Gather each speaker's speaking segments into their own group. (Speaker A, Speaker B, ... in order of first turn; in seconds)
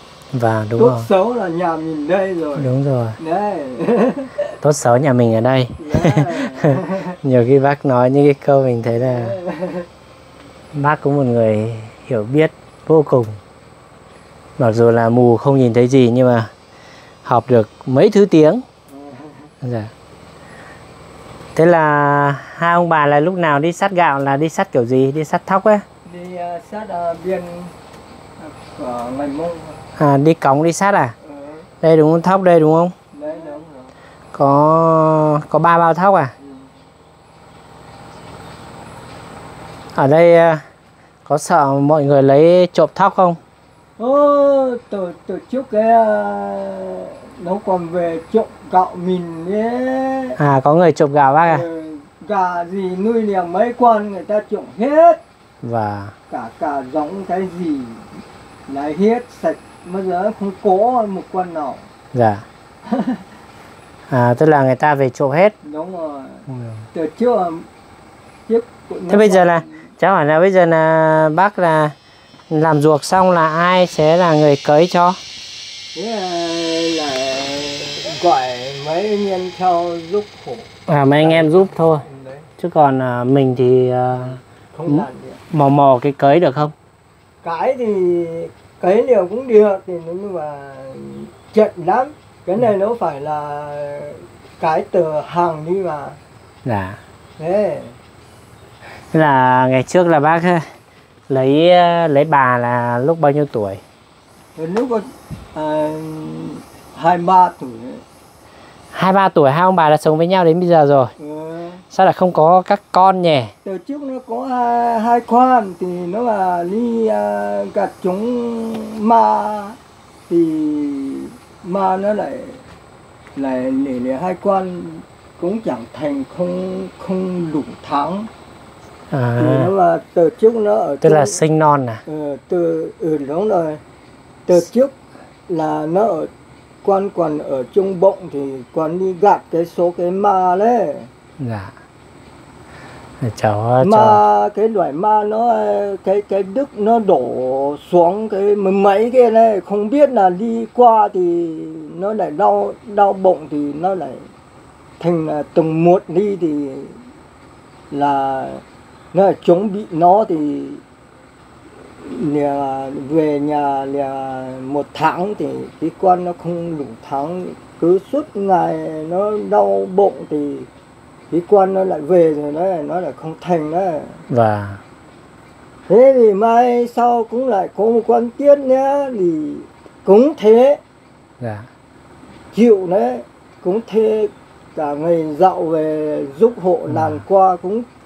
Speaker A: 0.3-1.1, 2.6-3.2, 4.6-9.4, 10.7-13.4, 14.6-16.5, 17.2-18.6, 19.6-19.9, 21.6-25.9, 30.0-31.1, 31.8-32.9, 34.3-36.3, 39.9-40.6, 41.3-43.4, 50.4-51.6, 55.6-56.1, 62.1-62.4, 64.1-65.5, 66.5-66.8, 69.1-71.9, 72.5-75.2, 80.9-82.0, 82.6-86.7, 96.6-97.0, 99.1-100.7, 101.3-103.8, 108.9-111.1, 111.9-113.5, 129.1-129.7, 131.0-132.0, 141.4-141.7, 143.2-144.2, 174.3-174.8, 181.4-181.7, 186.9-187.2
Speaker B: 0.8-4.5, 5.8-7.2, 9.0-9.9, 18.9-19.5, 26.0-27.7, 28.4-29.8, 31.2-31.7, 33.1-33.9, 36.4-36.7, 44.0-50.4, 51.4-55.2, 56.3-61.9, 62.9-63.2, 65.6-67.7, 68.5-69.8, 75.9-82.5, 84.7-85.4, 87.4-96.2, 97.4-98.0, 104.5-108.0, 111.2-111.8, 113.6-119.8, 120.3-122.6, 123.3-128.3, 129.4-131.4, 132.1-133.8, 134.4-134.9, 135.5-136.3, 136.8-141.1, 143.8-154.3, 155.0-157.0, 157.9-160.8, 162.0-170.7, 171.3-174.2, 175.9-180.8, 182.5-187.9